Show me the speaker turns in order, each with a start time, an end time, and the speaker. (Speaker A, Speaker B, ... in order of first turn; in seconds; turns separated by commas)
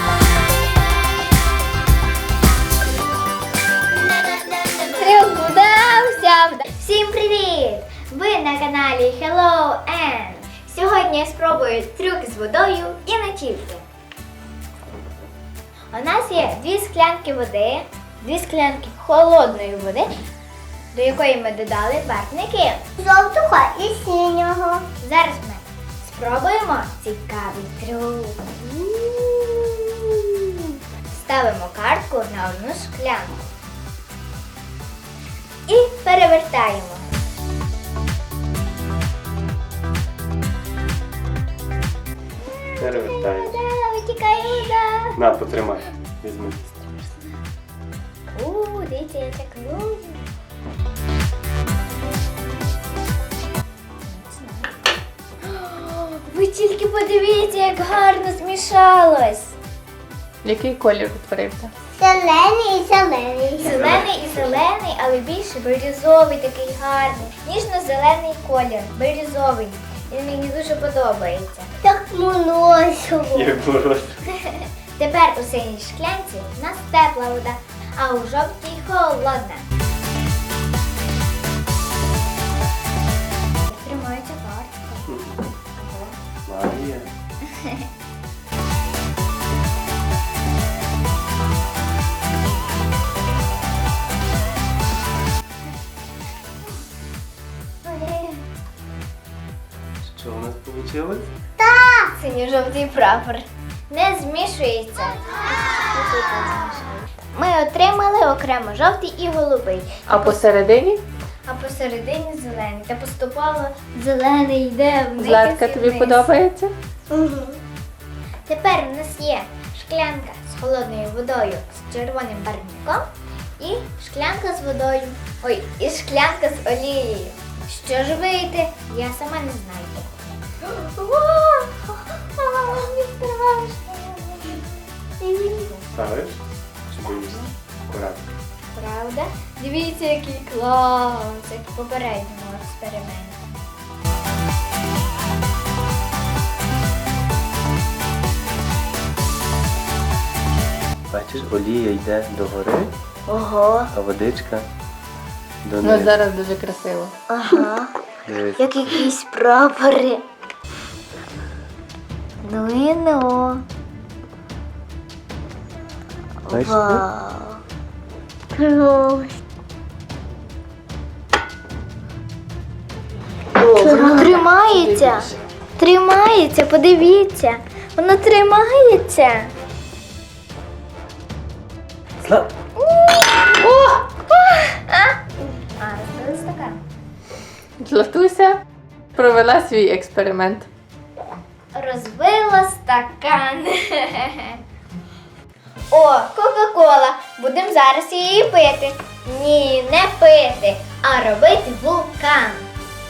Speaker A: 4.2-4.9, Speaker B: 4.9-13.8, Speaker B: 15.9-20.1, Speaker B: 20.9-22.8, Speaker A: 23.0-24.9, Speaker B: 25.0-30.4, Speaker B: 31.1-33.4, Speaker B: 35.7-37.1, Speaker B: 42.5-45.1, Speaker C: 42.8-43.6, Speaker C: 45.1-46.6, Speaker B: 48.3-50.2, Speaker B: 54.0-54.8, Speaker B: 55.4-59.5, Speaker D: 60.4-61.7, Speaker A: 62.0-63.7, Speaker B: 63.6-71.7, Speaker C: 63.6-64.6, Speaker A: 71.8-73.5, Speaker C: 73.3-74.2, Speaker B: 74.3-79.7, Speaker B: 83.7-85.1, Speaker C: 85.1-85.4, Speaker B: 85.8-86.1, Speaker C: 86.5-87.1, Speaker B: 87.5-87.8, Speaker B: 97.8-98.4, Speaker C: 100.0-101.3, Speaker A: 101.6-102.1, Speaker B: 102.2-110.4, Speaker D: 110.1-111.0, Speaker B: 111.5-116.3, Speaker D: 115.2-116.7, Speaker A: 117.1-117.6, Speaker B: 118.5-123.0, Speaker B: 123.6-130.1, Speaker B: 130.6-134.6, Speaker B: 135.2-135.8, Speaker C: 135.9-138.3, Speaker B: 138.7-143.4, Speaker C: 151.1-152.9, Speaker B: 153.3-153.9, Speaker C: 153.9-154.7, Speaker C: 155.6-156.2, Speaker D: 155.8-157.1, Speaker B: 157.3-157.9, Speaker C: 158.3-158.8, Speaker B: 158.6-160.2, Speaker B: 162.4-163.6, Speaker C: 166.5-167.1, Speaker B: 166.5-167.6, Speaker A: 168.5-169.3, Speaker B: 173.7-179.5, Speaker A: 173.8-174.3, Speaker C: 182.2-182.5, Speaker B: 182.8-185.2, Speaker B: 185.8-186.8, Speaker D: 187.8-188.6, Speaker D: 189.2-190.7, Speaker B: 191.7-194.6, Speaker B: 195.9-202.6